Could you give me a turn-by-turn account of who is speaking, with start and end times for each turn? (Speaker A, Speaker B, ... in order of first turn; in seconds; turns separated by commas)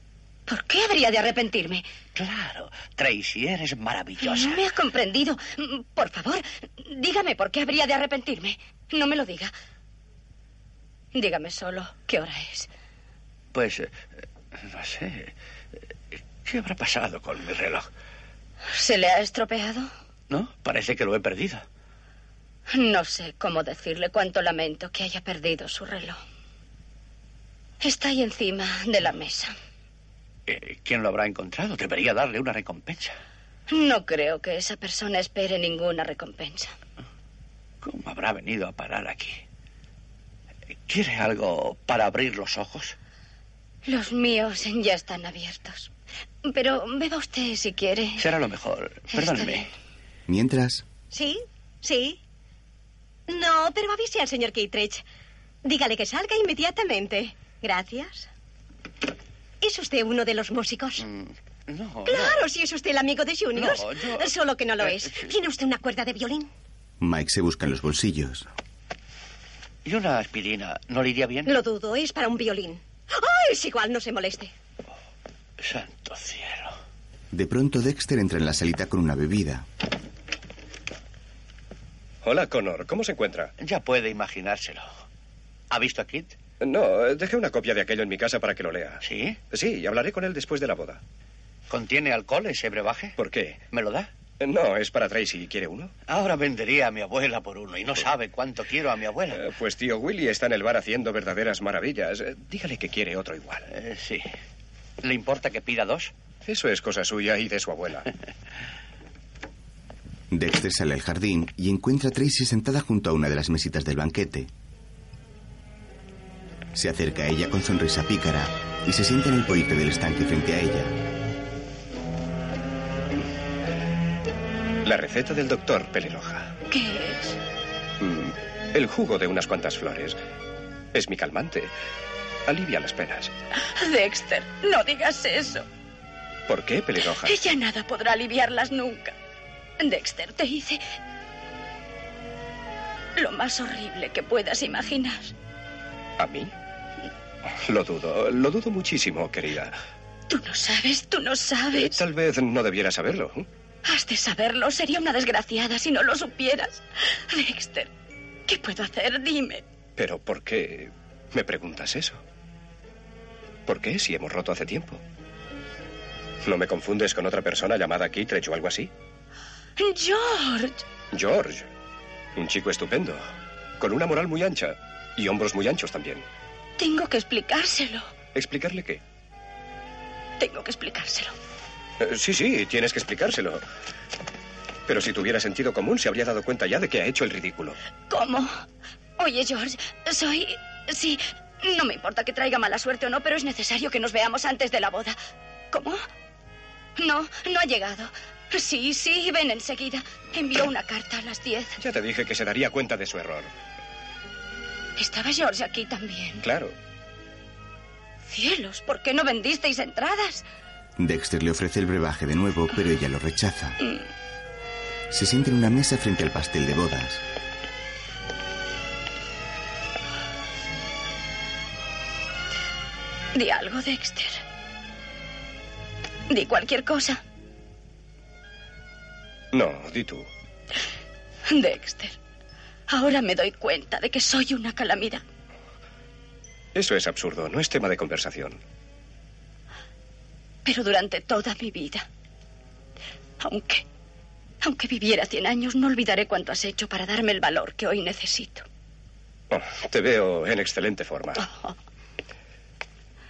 Speaker A: 0.5-1.9, Speaker B: 2.1-4.6, Speaker A: 4.2-9.5, Speaker A: 11.2-12.7, Speaker B: 13.5-15.3, Speaker B: 16.1-17.9, Speaker A: 18.7-19.9, Speaker B: 20.3-21.6, Speaker A: 22.7-26.2, Speaker A: 27.8-29.6, Speaker B: 30.5-33.2, Speaker A: 33.7-36.7, Speaker B: 37.8-39.4, Speaker B: 40.9-43.0, Speaker A: 43.9-45.9, Speaker A: 46.4-48.3, Speaker B: 48.2-49.7, Speaker A: 49.1-49.7, Speaker C: 50.3-50.9, Speaker D: 51.1-52.2, Speaker D: 53.3-55.0, Speaker D: 55.6-58.3, Speaker D: 59.6-61.0, Speaker B: 61.0-62.4, Speaker D: 62.1-66.5, Speaker B: 63.5-65.3, Speaker C: 67.0-68.5, Speaker B: 69.8-71.5, Speaker D: 71.5-74.5, Speaker B: 75.6-76.8, Speaker C: 77.3-79.7, Speaker E: 82.2-83.5, Speaker B: 83.6-84.9, Speaker B: 85.7-86.4, Speaker E: 86.6-91.0, Speaker B: 89.0-89.4, Speaker B: 91.7-93.2, Speaker E: 93.2-93.6, Speaker B: 93.7-94.1, Speaker E: 94.4-95.9, Speaker B: 96.1-99.4, Speaker E: 99.3-103.7, Speaker B: 103.7-104.3, Speaker B: 105.0-106.1, Speaker E: 106.5-108.1, Speaker C: 110.3-114.5, Speaker C: 116.7-121.0, Speaker E: 124.8-126.5, Speaker A: 126.7-127.4, Speaker E: 128.0-130.2, Speaker E: 130.9-131.7, Speaker E: 132.5-133.3, Speaker A: 133.6-135.7, Speaker E: 136.5-137.3, Speaker A: 137.2-139.1, Speaker A: 139.8-140.8, Speaker A: 143.2-145.3, Speaker E: 146.2-146.5, Speaker E: 147.6-149.8, Speaker A: 150.3-152.0, Speaker E: 151.7-153.5, Speaker A: 153.8-157.9, Speaker A: 158.5-159.6, Speaker E: 160.0-162.2, Speaker E: 163.7-165.0, Speaker E: 166.4-168.9, Speaker A: 169.8-170.8, Speaker E: 171.1-171.7, Speaker E: 172.4-173.2, Speaker E: 173.8-176.3, Speaker A: 176.8-178.1, Speaker E: 178.3-179.0, Speaker A: 180.4-181.3, Speaker E: 182.0-183.6, Speaker E: 184.9-187.8, Speaker A: 188.1-188.6, Speaker A: 189.2-195.2, Speaker A: 195.7-196.0, Speaker A: 197.0-201.8, Speaker E: 201.8-203.5, Speaker A: 205.0-206.4, Speaker E: 206.4-206.7, Speaker A: 208.3-210.4, Speaker C: 211.0-213.8, Speaker C: 215.1-217.2, Speaker A: 223.3-224.4, Speaker A: 226.3-227.2, Speaker E: 229.5-230.3, Speaker A: 231.5-232.2, Speaker A: 232.9-235.2, Speaker E: 236.8-238.6, Speaker A: 240.7-242.1, Speaker A: 243.4-243.8, Speaker A: 244.6-248.7, Speaker E: 249.5-251.4, Speaker A: 251.4-251.8